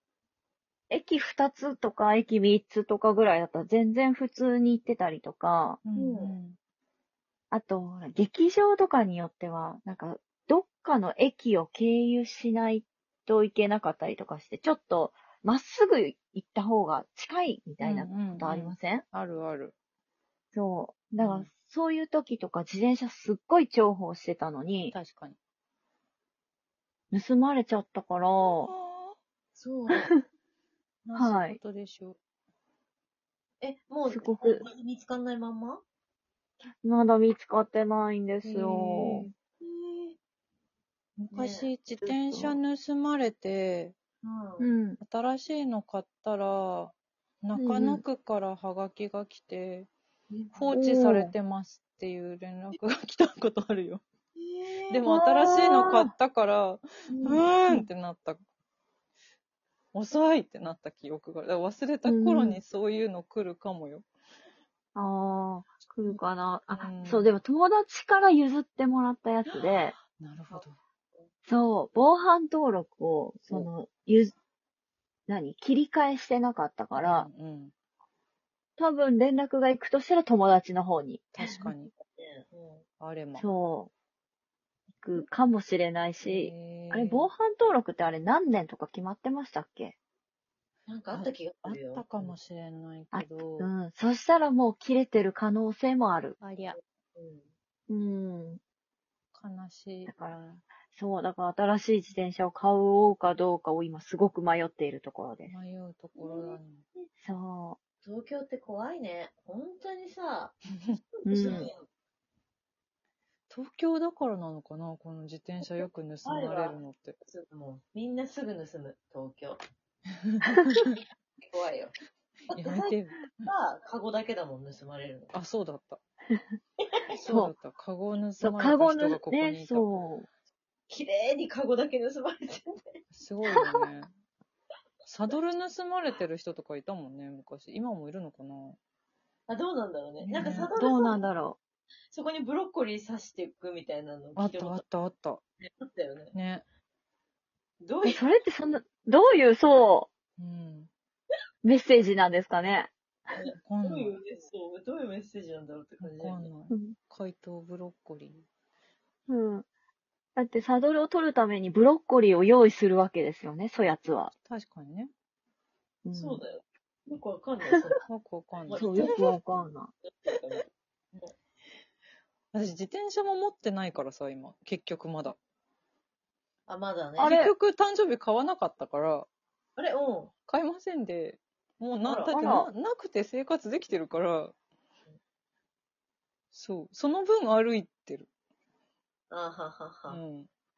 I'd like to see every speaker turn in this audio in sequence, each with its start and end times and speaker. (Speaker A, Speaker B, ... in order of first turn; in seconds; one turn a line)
Speaker A: 0.9-5.8
Speaker B: 5.8-6.6
Speaker C: 5.9-6.4
Speaker A: 7.5-19.0
Speaker B: 17.8-19.7
Speaker A: 20.5-24.9
Speaker B: 21.2-21.5
Speaker B: 24.9-25.4
Speaker A: 27.1-28.7
Speaker B: 28.4-29.1
Speaker C: 29.6-30.1
Speaker B: 31.0-32.2
Speaker A: 31.1-31.6
Speaker C: 33.6-35.8
Speaker A: 34.1-34.6
Speaker A: 36.8-39.3
Speaker B: 38.4-39.3
Speaker C: 39.6-40.1
Speaker B: 41.2-43.9
Speaker C: 41.3-41.7
Speaker A: 42.0-42.6
Speaker C: 44.2-44.7
Speaker A: 44.6-45.0
Speaker B: 45.0-49.9
Speaker A: 47.5-48.0
Speaker A: 50.3-51.3
Speaker B: 50.5-54.0
Speaker C: 54.4-54.9
Speaker B: 54.9-58.4
Speaker A: 55.0-56.1
Speaker C: 57.1-57.4
Speaker B: 59.9-64.0
Speaker A: 62.0-62.6
Speaker A: 64.9-70.0
Speaker B: 66.0-67.3
Speaker B: 70.0-70.8
Speaker C: 70.5-71.3
Speaker A: 71.5-74.3
Speaker A: 75.3-77.3
Speaker B: 76.9-77.7
Speaker A: 78.8-81.7
Speaker B: 81.3-81.9
Speaker C: 82.1-82.8
Speaker B: 83.0-83.5
Speaker A: 83.4-83.9
Speaker A: 85.0-89.9
Speaker B: 86.2-87.3
Speaker C: 90.9-92.3
Speaker B: 91.1-93.7
Speaker A: 93.1-96.4
Speaker B: 96.4-96.8
Speaker C: 96.6-97.5
Speaker A: 97.9-98.6
Speaker B: 99.3-100.1
Speaker A: 100.1-105.5
Speaker B: 105.5-106.8
Speaker C: 106.2-107.1
Speaker A: 107.2-107.8
Speaker C: 108.0-110.6
Speaker C: 111.2-111.8
Speaker A: 111.2-111.7
Speaker B: 113.5-117.2
Speaker C: 115.6-119.6
Speaker B: 120.3-121.0
Speaker C: 121.4-121.9
Speaker C: 122.5-122.9
Speaker B: 122.5-123.5
Speaker C: 123.5-125.3
Speaker B: 125.3-126.0
Speaker C: 126.8-127.1
Speaker B: 127.2-130.0
Speaker A: 127.2-127.5
Speaker A: 128.4-130.3
Speaker C: 130.9-132.8
Speaker B: 133.1-134.1
Speaker B: 135.0-138.8
Speaker C: 139.5-141.2
Speaker B: 140.2-140.7
Speaker A: 140.7-141.6
Speaker C: 142.1-144.8
Speaker B: 144.3-145.4
Speaker C: 145.6-146.3
Speaker B: 146.3-146.6
Speaker C: 147.8-148.2
Speaker A: 148.0-150.1
Speaker B: 150.4-150.9
Speaker A: 151.6-152.9
Speaker C: 153.4-156.5
Speaker B: 153.6-154.2
Speaker B: 156.0-158.4
Speaker A: 156.7-157.0
Speaker A: 159.3-159.7
Speaker A: 160.3-164.3
Speaker B: 164.4-165.1
Speaker A: 166.0-166.4
Speaker C: 166.1-168.0
Speaker B: 168.1-169.4
Speaker C: 168.6-169.2
Speaker A: 168.7-169.9
Speaker C: 170.2-170.6
Speaker B: 172.5-175.3
Speaker C: 176.7-177.3
Speaker A: 177.2-177.5
Speaker B: 177.2-179.3
Speaker C: 179.8-180.3
Speaker B: 180.5-184.5
Speaker C: 182.0-182.5
Speaker A: 182.3-182.7
Speaker B: 186.5-188.3
Speaker C: 189.3-190.2
Speaker B: 190.1-190.5